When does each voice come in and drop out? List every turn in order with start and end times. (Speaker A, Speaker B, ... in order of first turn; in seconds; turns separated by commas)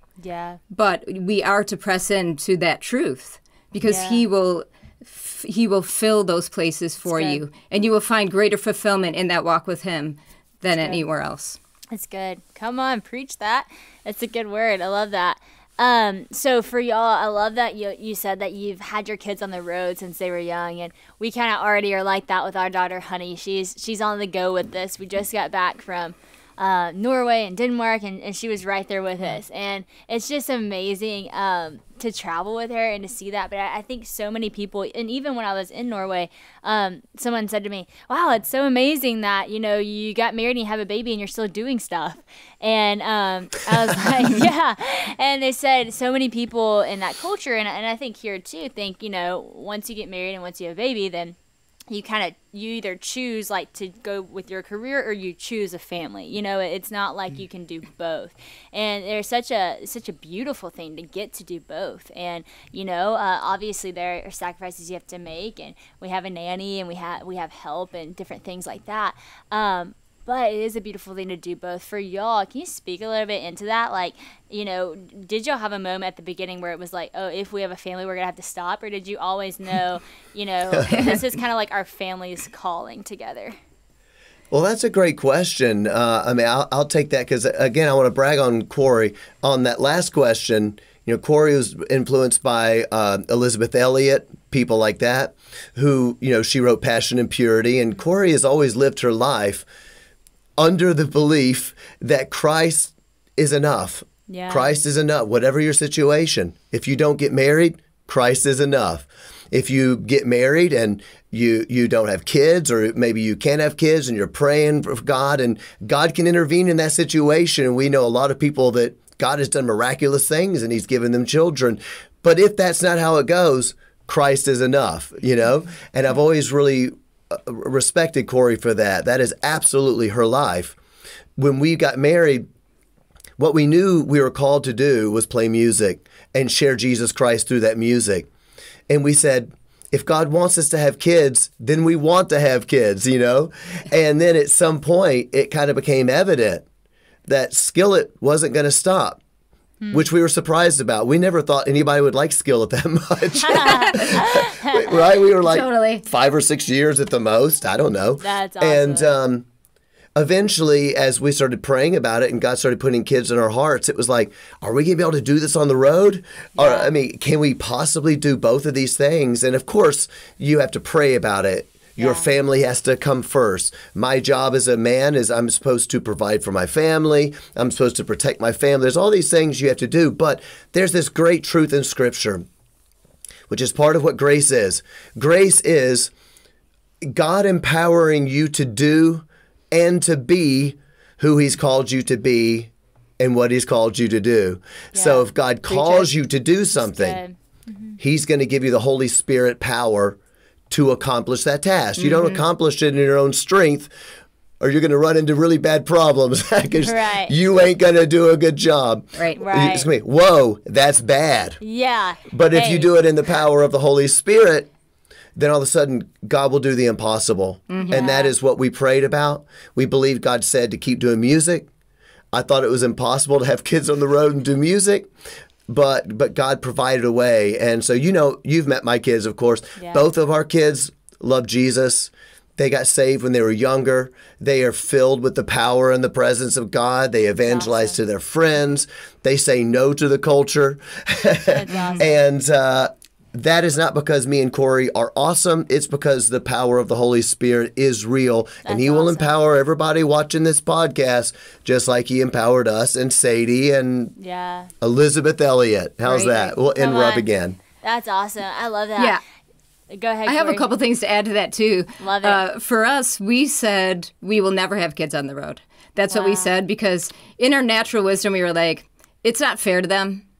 Speaker A: 0.2-0.6, Speaker B: 0.7-11.6, Speaker A: 3.8-4.2, Speaker A: 7.1-7.4, Speaker A: 10.7-11.0, Speaker A: 11.9-51.4, Speaker A: 51.9-83.5, Speaker C: 80.7-81.1, Speaker C: 84.5-99.6, Speaker C: 100.6-130.8, Speaker A: 104.3-104.7, Speaker C: 131.4-132.4, Speaker C: 133.4-138.3, Speaker C: 138.9-146.7, Speaker C: 147.3-149.2, Speaker A: 149.8-150.1, Speaker C: 149.9-159.4, Speaker A: 153.4-154.9, Speaker B: 153.7-154.0, Speaker B: 155.4-156.0, Speaker A: 158.2-159.1, Speaker C: 160.2-182.5, Speaker A: 166.6-166.9, Speaker A: 172.0-172.3, Speaker C: 183.5-186.1, Speaker C: 187.0-197.2, Speaker A: 194.9-196.1, Speaker A: 196.8-198.0, Speaker C: 198.0-200.2, Speaker C: 200.7-203.9, Speaker B: 202.0-202.4, Speaker C: 204.6-211.6, Speaker A: 206.8-207.3, Speaker A: 209.4-209.9, Speaker A: 211.6-212.9, Speaker C: 212.3-214.7, Speaker C: 215.3-221.7, Speaker B: 217.7-218.0, Speaker A: 217.9-218.3, Speaker C: 222.3-225.1, Speaker C: 225.7-254.1, Speaker A: 229.8-230.0, Speaker A: 237.4-238.0, Speaker A: 241.5-242.1, Speaker B: 241.7-242.0, Speaker A: 248.6-249.3, Speaker A: 254.2-254.7, Speaker C: 254.8-257.6, Speaker B: 256.1-256.5, Speaker A: 256.7-259.2, Speaker A: 259.9-260.7, Speaker B: 260.2-270.2, Speaker A: 262.0-262.4, Speaker A: 266.1-266.5